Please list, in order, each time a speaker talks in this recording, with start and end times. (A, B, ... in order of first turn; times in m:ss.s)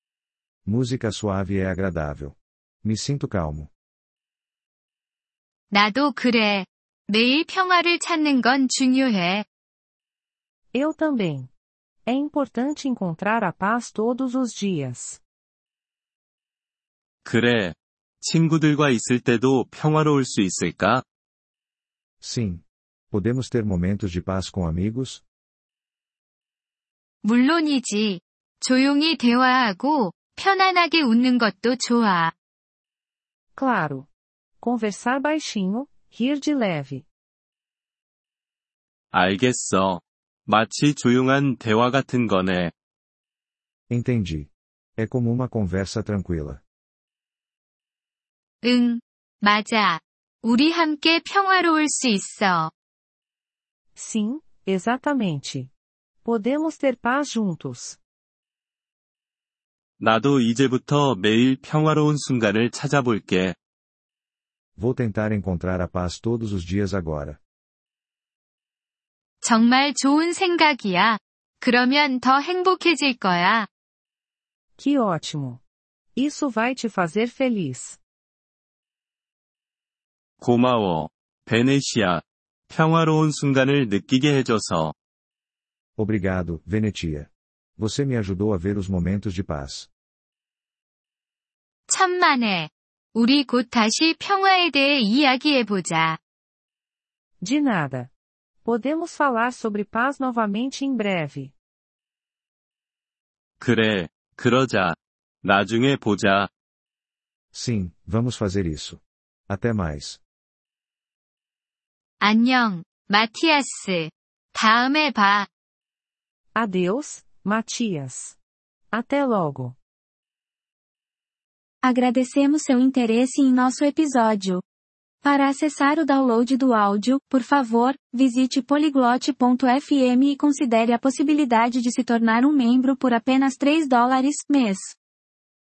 0:00.6-0:03.7 A
0:05.7-0:09.4 B
0:10.7-0:11.5 C
0:12.0-0:15.2 C
0:17.2-0:21.0 D
0:22.2-0:25.2 A
0:27.2-0:32.3 B
0:33.5-0:34.1 C
0:34.6-0:37.0 C
0:39.1-0:42.7 D
0:43.9-0:46.6 A
0:48.6-0:52.7 B
0:53.9-0:55.7 C
0:56.2-0:58.0 C
1:00.0-1:03.6 D
1:04.8-1:07.4 A
1:09.4-1:13.7 B
1:14.8-1:15.6 C
1:16.2-1:18.0 C
1:20.4-1:24.9 D
1:26.0-1:29.9 A
1:31.9-1:36.2 B
1:37.4-1:38.1 C
1:38.6-1:41.5 C
1:43.6-1:46.5 D
1:47.5-1:50.2 A
1:52.2-1:55.5 B
1:56.5-1:58.4 C
1:58.9-1:59.8 C
2:01.8-2:04.6 E
2:05.2-2:15.0 E